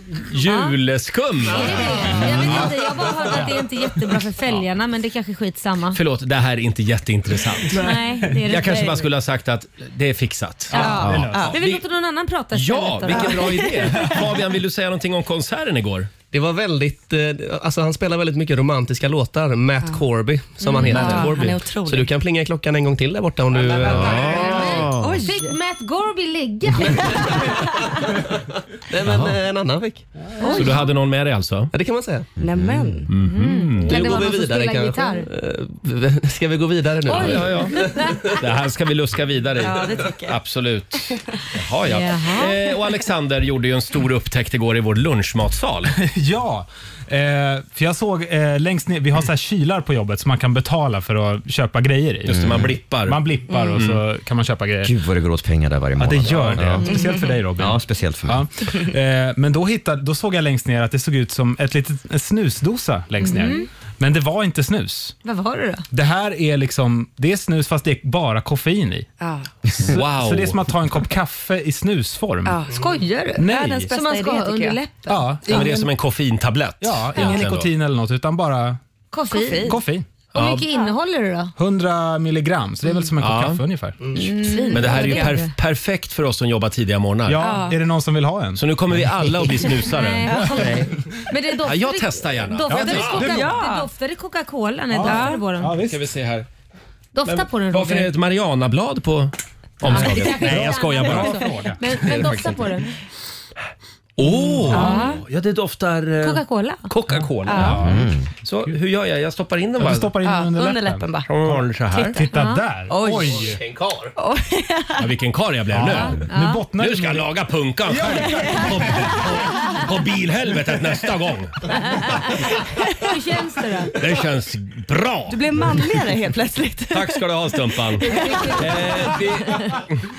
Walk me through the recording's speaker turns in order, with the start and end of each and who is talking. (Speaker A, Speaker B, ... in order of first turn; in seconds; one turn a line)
Speaker A: 0.2-2.3
Speaker B: 0.4-0.8
Speaker B: 1.5-6.0
Speaker C: 2.0-3.6
Speaker A: 5.9-7.8
Speaker C: 7.7-8.4
Speaker B: 7.7-9.0
Speaker A: 8.5-11.8
Speaker C: 10.7-11.5
Speaker D: 10.7-11.6
Speaker E: 11.0-11.3
Speaker B: 11.4-13.7
Speaker A: 12.5-16.1
Speaker D: 13.1-14.2
Speaker F: 16.3-24.6
Speaker D: 20.6-22.1
Speaker B: 20.7-21.3
Speaker D: 23.6-25.6
Speaker E: 23.9-25.2
Speaker B: 24.2-27.6
Speaker F: 28.9-30.1
Speaker B: 30.4-30.8
Speaker D: 30.4-30.9
Speaker A: 30.4-31.7
Speaker F: 31.7-32.3
Speaker D: 32.4-33.1
Speaker E: 32.5-33.0
Speaker A: 33.1-34.2
Speaker B: 33.2-35.3
Speaker F: 33.8-38.1
Speaker B: 37.1-38.2
Speaker A: 37.1-45.9
Speaker D: 39.6-40.4
Speaker D: 41.9-42.5
Speaker B: 42.0-42.5
Speaker C: 45.9-54.9
Speaker A: 52.3-54.0
Speaker E: 52.3-52.7
Speaker D: 53.5-53.8
Speaker E: 54.8-56.9
Speaker C: 56.0-65.2
Speaker D: 56.8-57.4
Speaker E: 57.6-58.5
Speaker B: 63.2-63.7
Speaker B: 65.2-65.8
Speaker C: 65.9-69.1
Speaker D: 69.2-69.5
Speaker A: 69.8-70.6
Speaker C: 69.9-72.6
Speaker D: 72.5-72.8
Speaker B: 72.7-75.8
Speaker C: 73.4-73.9
Speaker D: 73.4-74.8
Speaker C: 75.1-75.7
Speaker A: 75.5-77.7
Speaker C: 76.8-78.8
Speaker B: 79.1-79.8
Speaker D: 79.3-79.8
Speaker C: 79.6-80.1
Speaker B: 80.3-81.5
Speaker A: 80.3-80.7
Speaker C: 81.6-84.0
Speaker A: 83.2-83.6
Speaker B: 84.2-85.5
Speaker D: 84.4-85.4
Speaker A: 84.7-87.5
Speaker C: 87.3-89.1
Speaker D: 87.4-87.8
Speaker A: 88.6-90.8
Speaker B: 89.9-95.8
Speaker D: 90.3-90.7
Speaker A: 91.6-93.4
Speaker C: 92.7-93.5
Speaker D: 93.2-93.9
Speaker C: 94.9-96.0
Speaker D: 95.0-95.4
Speaker A: 95.9-96.5
Speaker B: 97.2-98.1
Speaker A: 97.2-102.7
Speaker B: 99.9-102.9
Speaker C: 99.9-102.4
Speaker A: 104.2-110.1
Speaker D: 104.7-105.2
Speaker C: 104.7-105.0
Speaker B: 104.7-105.1
Speaker B: 106.2-106.9
Speaker C: 107.1-108.1
Speaker D: 107.5-107.8
Speaker E: 107.8-108.2
Speaker C: 109.8-113.6
Speaker D: 110.2-111.3
Speaker A: 111.3-112.2
Speaker D: 111.9-112.2
Speaker B: 112.3-112.7
Speaker D: 112.9-113.5
Speaker F: 113.3-114.1
Speaker D: 114.2-115.1
Speaker A: 115.0-116.2
Speaker C: 115.7-117.3
Speaker B: 116.3-116.6
Speaker A: 116.8-121.6
Speaker C: 117.9-119.3
Speaker D: 118.1-119.1
Speaker B: 122.0-122.3
Speaker B: 123.0-124.0
Speaker A: 124.0-125.7
Speaker D: 125.3-127.2
Speaker A: 126.9-130.0
Speaker D: 128.0-128.8
Speaker B: 128.1-128.8